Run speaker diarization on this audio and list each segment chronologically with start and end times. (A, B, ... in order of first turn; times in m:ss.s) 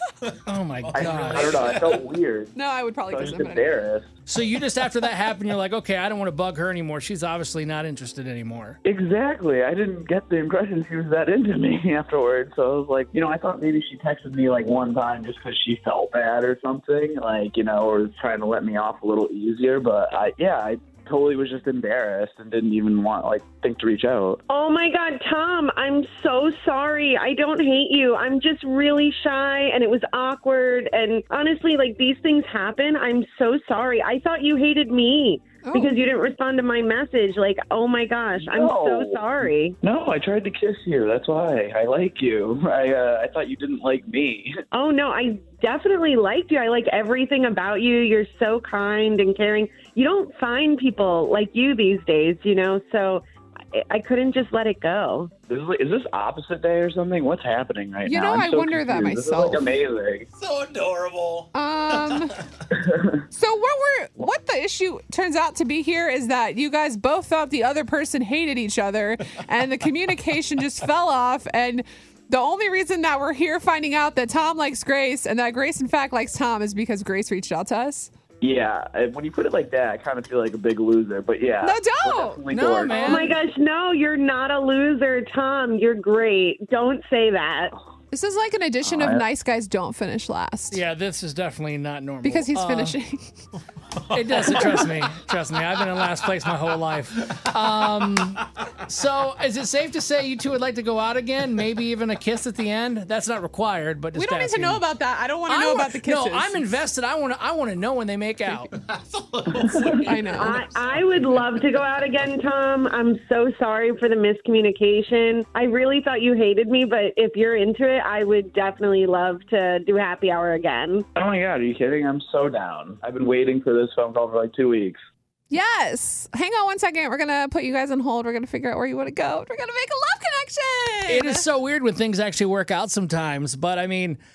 0:00.4-0:01.9 A
0:00.9-0:02.5 B
0:02.5-0:03.7 C
0:03.1-0:04.1 B
0:04.3-0:08.8 A
0:08.8-0:24.4 B
0:24.5-0:39.8 D
0:35.6-0:35.9 C
0:38.3-0:44.5 B
0:44.7-0:55.3 D
0:55.4-1:00.3 B
0:58.0-0:59.6 C
1:01.5-1:02.4 C
1:02.8-1:03.1 B
1:03.3-1:18.1 C
1:18.4-1:23.1 B
1:21.6-1:23.2 C
1:22.5-1:23.4 A
1:22.9-1:27.7 D
1:28.1-1:30.8 C
1:28.8-1:29.2 B
1:30.7-1:33.0 A
1:32.2-1:33.3 C
1:34.1-1:44.8 A
1:44.1-1:46.6 C
1:45.5-1:48.7 A
1:50.0-1:50.6 C
1:50.4-2:01.0 D
2:01.1-2:05.0 B
2:05.5-2:11.4 C
2:11.1-2:14.2 A